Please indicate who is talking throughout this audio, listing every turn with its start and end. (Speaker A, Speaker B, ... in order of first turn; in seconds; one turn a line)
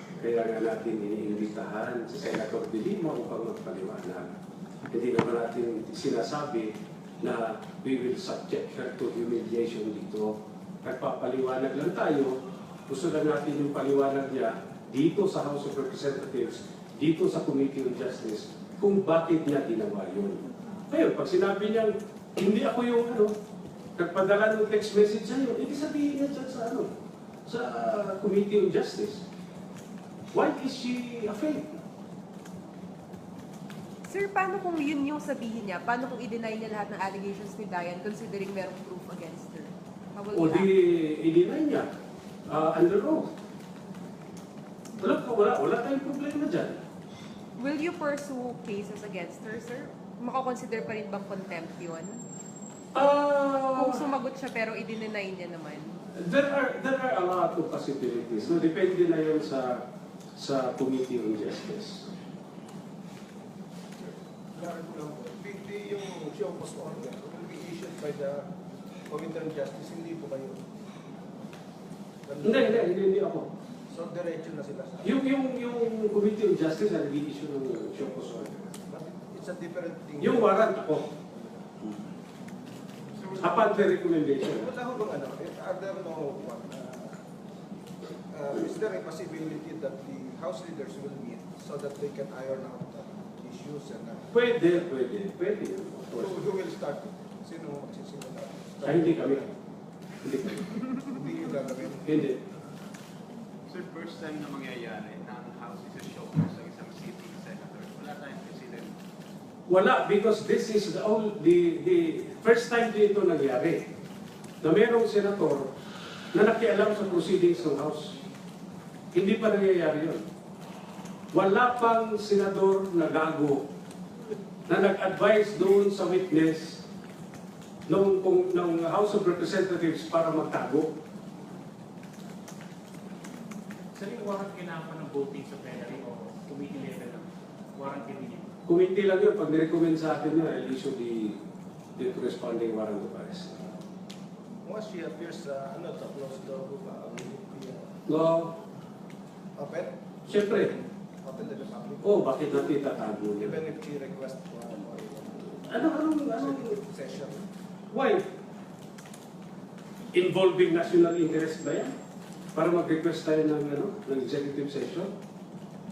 Speaker A: 0.2-4.3
Speaker A: 4.9-23.3
Speaker A: 24.0-26.9
Speaker A: 27.4-29.2
Speaker A: 30.3-31.8
Speaker B: 34.1-40.7
Speaker A: 40.3-41.9
Speaker A: 42.5-43.3
Speaker A: 45.0-46.8
Speaker B: 47.6-52.2
Speaker A: 52.9-54.0
Speaker B: 53.7-56.0
Speaker A: 56.2-59.8
Speaker A: 60.4-62.1
Speaker C: 64.0-68.5
Speaker C: 69.1-70.6
Speaker C: 72.2-73.0
Speaker A: 72.4-73.5
Speaker C: 73.9-75.1
Speaker A: 75.0-78.7
Speaker C: 78.9-80.7
Speaker A: 80.2-81.1
Speaker C: 83.2-87.2
Speaker A: 83.4-84.7
Speaker C: 88.3-94.3
Speaker A: 94.3-96.4
Speaker C: 96.1-99.5
Speaker A: 98.8-99.4
Speaker A: 100.2-100.8
Speaker C: 101.1-102.3
Speaker A: 102.0-102.4
Speaker D: 103.7-108.9
Speaker A: 109.7-113.9
Speaker A: 114.6-115.7
Speaker A: 116.3-118.2
Speaker A: 119.1-120.2
Speaker A: 121.3-123.7
Speaker A: 124.7-126.8
Speaker A: 127.9-130.9
Speaker E: 133.9-138.5
Speaker A: 138.7-141.4
Speaker A: 141.9-143.5
Speaker C: 144.6-147.9
Speaker A: 148.1-148.6
Speaker C: 149.6-152.3
Speaker A: 150.3-150.7
Speaker A: 152.0-153.5
Speaker C: 153.4-157.4
Speaker A: 155.7-156.7
Speaker A: 157.9-158.2
Speaker A: 160.1-161.9
Speaker A: 162.5-165.1